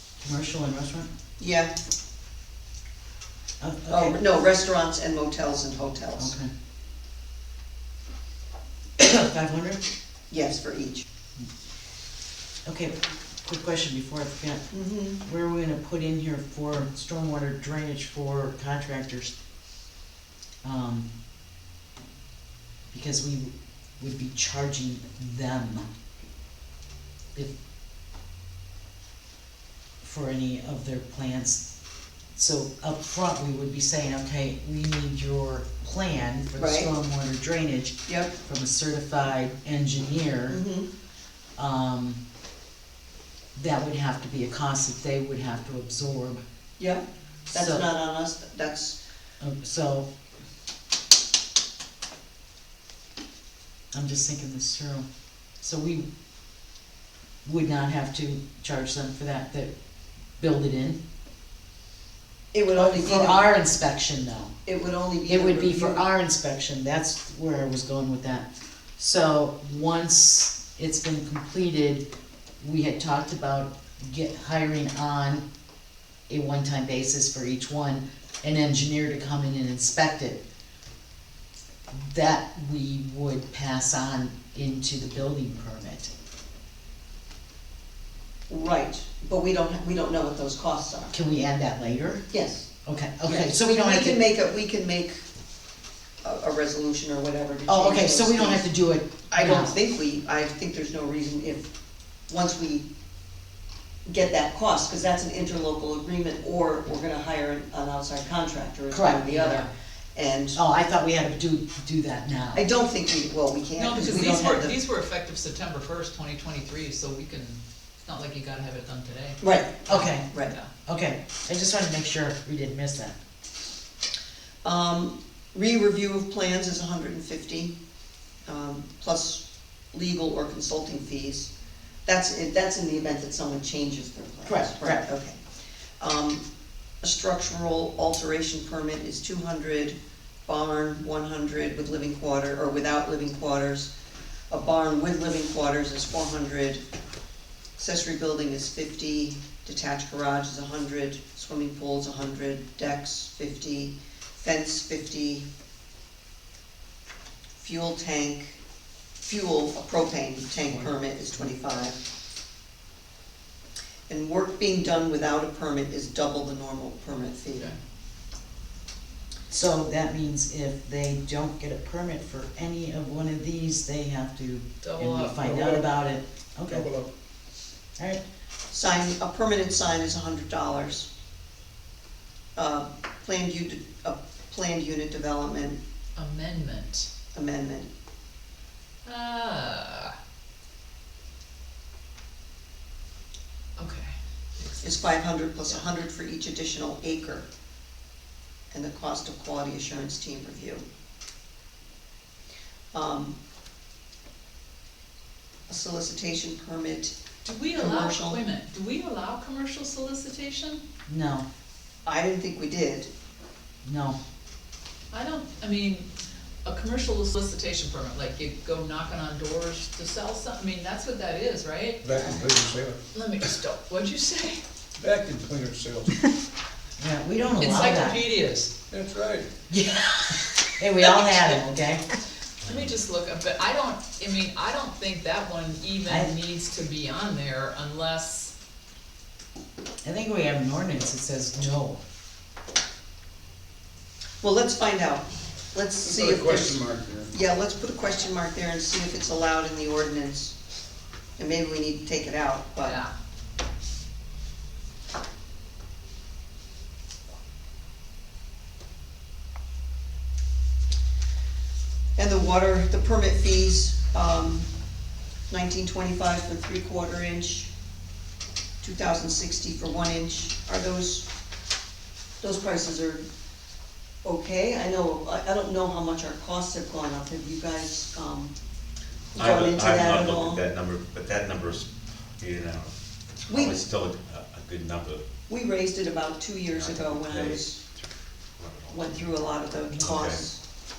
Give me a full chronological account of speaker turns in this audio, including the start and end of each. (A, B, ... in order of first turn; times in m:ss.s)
0:00.2-0:01.1 A
0:01.4-0:01.7 B
0:03.6-0:04.2 A
0:03.9-0:06.3 B
0:06.2-0:06.5 A
0:09.0-0:09.8 A
0:10.3-0:11.0 B
0:12.6-0:19.3 A
0:14.7-0:15.2 B
0:20.6-0:21.1 A
0:22.9-0:25.9 A
0:30.0-0:31.6 A
0:32.3-0:40.6 A
0:36.6-0:36.9 B
0:38.1-0:38.3 B
0:40.5-0:40.9 B
0:41.6-0:42.2 A
0:43.6-0:46.4 A
0:46.8-0:49.0 B
0:47.5-0:47.8 A
0:49.4-0:50.1 A
0:53.9-0:55.0 A
0:55.6-0:56.0 A
0:57.4-0:59.7 A
1:00.4-1:01.0 A
1:02.5-1:03.5 B
1:02.7-1:04.5 A
1:04.6-1:06.0 B
1:05.3-1:12.0 A
1:12.6-1:15.4 A
1:16.3-1:20.4 A
1:21.9-1:26.1 A
1:28.5-1:31.1 B
1:31.1-1:32.3 A
1:32.3-1:32.7 B
1:32.8-1:34.2 A
1:33.2-1:35.2 B
1:36.2-1:38.7 B
1:37.7-1:39.8 A
1:39.3-1:41.7 B
1:42.3-1:42.9 B
1:44.1-1:50.6 B
1:48.9-1:49.7 A
1:50.6-1:52.7 A
1:52.6-1:54.8 B
1:53.8-2:00.7 C
1:59.4-2:00.5 B
1:59.9-2:00.3 A
2:00.9-2:03.1 A
2:04.6-2:07.7 B
2:08.4-2:11.5 B
2:12.0-2:15.4 B
2:14.4-2:15.0 A
2:16.0-2:16.4 B
2:17.0-2:23.9 B
2:24.5-2:26.8 B
2:27.8-2:35.4 B
2:37.6-2:38.6 B
2:39.2-2:42.0 B
2:44.1-2:47.8 B
2:49.5-2:56.9 A
2:54.8-2:55.4 C
2:55.4-2:55.8 D
2:56.6-2:57.1 D
2:58.0-2:58.2 A
2:58.7-3:01.1 B
3:02.5-3:05.8 B
3:06.2-3:07.1 C
3:07.3-3:07.9 B
3:09.0-3:10.1 C
3:13.8-3:14.9 C
3:14.8-3:17.4 B
3:18.7-3:20.8 B
3:22.9-3:23.4 B
3:25.7-3:27.2 B
3:27.4-3:30.8 C
3:27.7-3:28.4 B
3:31.1-3:31.4 A
3:32.0-3:33.1 B
3:33.8-3:34.2 A
3:35.1-3:36.1 C
3:36.6-3:42.0 C
3:42.0-3:43.0 D
3:43.1-3:44.6 C
3:45.0-3:46.2 D
3:47.0-3:48.2 A
3:47.6-3:48.7 C
3:48.9-3:49.5 D
3:49.7-3:52.0 A
3:51.0-3:51.6 C
3:52.6-3:58.5 C
3:56.0-3:56.3 A
4:00.0-4:02.0 A
4:04.4-4:10.6 B
4:06.0-4:07.3 D
4:11.4-4:13.0 B
4:12.8-4:13.1 C
4:22.2-4:24.7 B
4:25.5-4:27.7 B
4:28.8-4:31.3 B
4:32.4-4:33.2 B
4:34.2-4:38.5 B
4:39.3-4:40.6 B
4:39.4-4:45.2 E
4:43.5-4:43.8 B
4:45.5-4:47.8 B
4:46.7-4:50.4 E
4:48.9-4:50.6 B